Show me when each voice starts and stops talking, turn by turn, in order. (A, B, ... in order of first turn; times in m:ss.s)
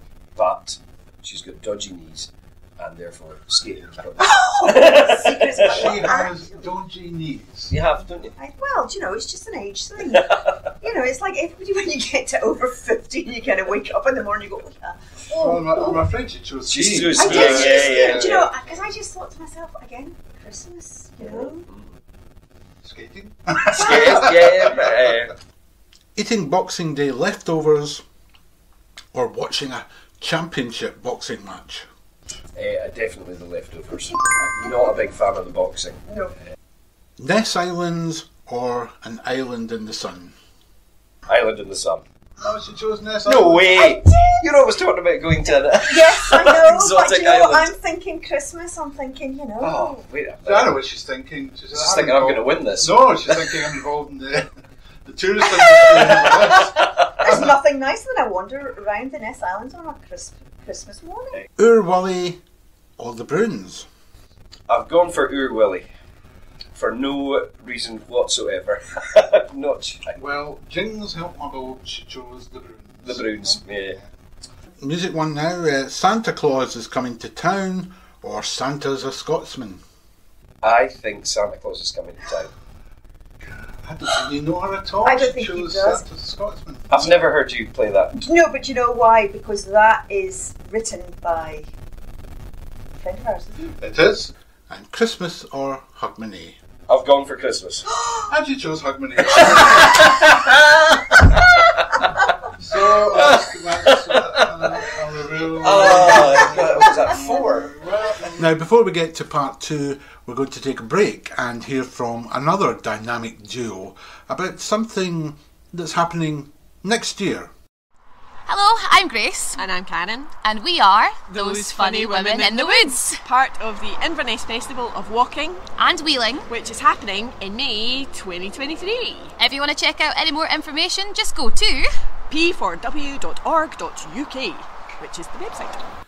0:00.4-0:06.2 A
0:04.2-0:06.6 B
0:05.6-0:07.8 C
0:07.7-0:08.3 A
0:08.4-0:16.0 B
0:10.1-0:10.4 A
0:15.3-0:18.5 C
0:16.7-0:18.5 A
0:17.2-0:21.7 B
0:21.2-0:21.8 A
0:22.8-0:25.0 C
0:23.7-0:24.1 B
0:23.8-0:25.3 A
0:26.2-0:28.0 C
0:29.1-0:31.9 C
0:32.6-0:36.1 A
0:37.2-0:40.4 C
0:41.3-0:42.0 A
0:42.4-0:43.8 C
0:43.2-0:47.8 A
0:43.8-0:44.4 B
0:45.8-0:50.0 B
0:49.6-0:50.8 A
0:50.4-0:54.5 C
0:51.7-0:53.6 A
0:55.1-0:56.8 C
0:55.9-0:57.3 A
0:55.9-1:01.4 B
1:01.6-1:02.4 C
1:03.0-1:03.9 C
1:04.7-1:05.9 A
1:06.8-1:10.2 A
1:10.1-1:13.4 C
1:13.0-1:14.0 A
1:14.8-1:19.8 C
1:20.6-1:22.5 A
1:23.5-1:27.1 C
1:25.0-1:26.0 B
1:26.9-1:28.2 A
1:28.1-1:31.7 B
1:33.0-1:33.8 B
1:33.8-1:36.6 C
1:36.9-1:37.9 A
1:38.3-1:40.1 C
1:39.6-1:41.8 A
1:42.6-1:57.5 C
1:44.2-1:44.4 A
1:45.6-1:47.7 A
1:58.5-1:59.5 D
1:59.6-2:00.3 E
2:00.5-2:03.2 D
2:01.3-2:05.6 E
2:05.8-2:06.4 D
2:06.5-2:09.4 E
2:09.4-2:11.8 D
2:12.3-2:15.9 E